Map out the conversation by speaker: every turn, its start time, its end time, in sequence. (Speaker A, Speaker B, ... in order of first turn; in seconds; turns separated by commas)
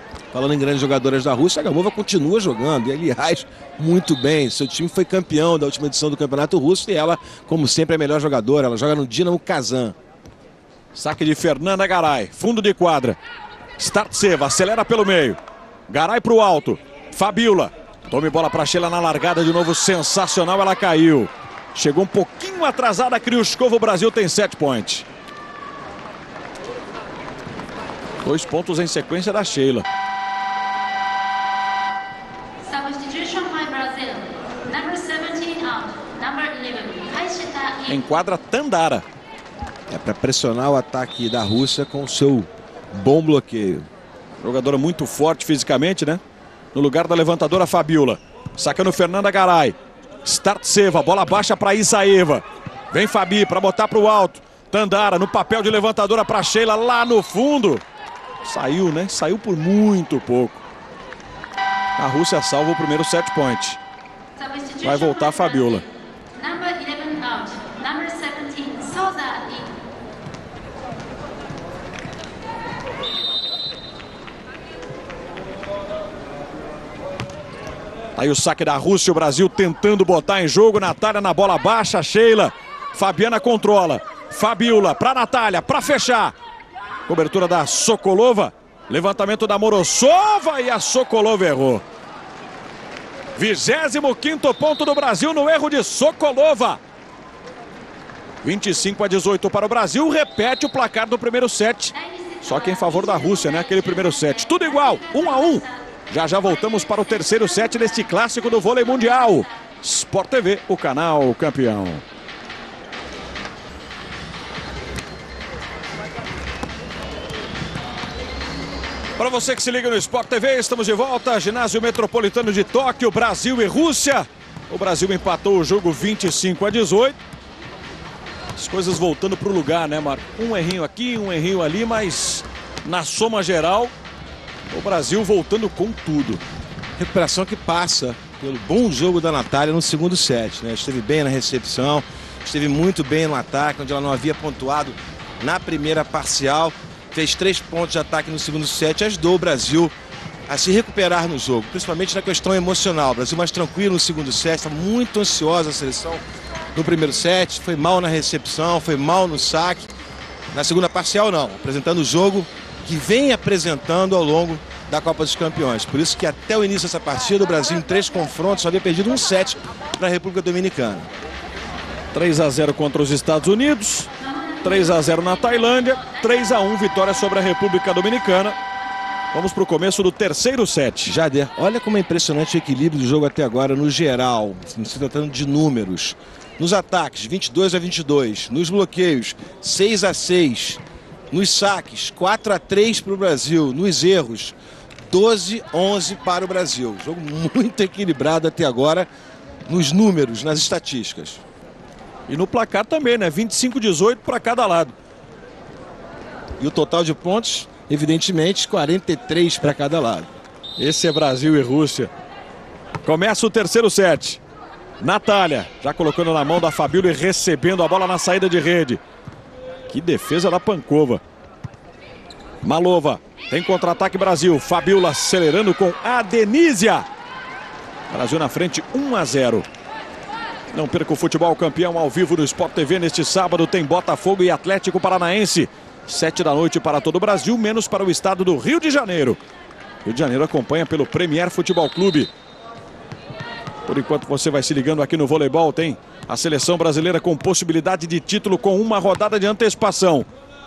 Speaker A: 0.3-9.9, Speaker B: 10.9-13.2, Speaker B: 13.8-25.1, Speaker B: 28.2-29.9, Speaker C: 32.6-38.1, Speaker B: 37.9-39.0, Speaker A: 39.9-43.9, Speaker B: 44.4-46.2, Speaker B: 46.7-57.8, Speaker B: 58.4-60.6, Speaker B: 62.0-63.8, Speaker C: 64.4-69.8, Speaker B: 64.8-65.8, Speaker B: 78.2-86.3, Speaker B: 87.1-91.8, Speaker B: 93.3-96.8, Speaker B: 98.4-112.0, Speaker C: 101.9-105.8, Speaker C: 107.2-107.7, Speaker C: 108.3-109.5, Speaker B: 119.2-127.2, Speaker B: 128.6-133.9, Speaker B: 134.7-136.4, Speaker A: 137.0-149.9, Speaker A: 150.5-156.2, Speaker A: 156.8-159.9, Speaker A: 160.5-171.1, Speaker B: 172.1-174.1, Speaker C: 174.2-176.6, Speaker B: 174.6-178.6, Speaker B: 179.3-181.1, Speaker A: 181.0-194.6, Speaker A: 195.1-199.1, Speaker A: 199.7-201.4, Speaker B: 202.3-204.9, Speaker A: 206.6-210.3, Speaker B: 210.8-212.1, Speaker B: 213.0-214.4, Speaker B: 215.0-219.0, Speaker B: 219.9-221.2, Speaker B: 222.6-227.1, Speaker B: 228.1-229.7, Speaker B: 230.7-239.4, Speaker B: 240.0-242.3, Speaker B: 243.8-250.3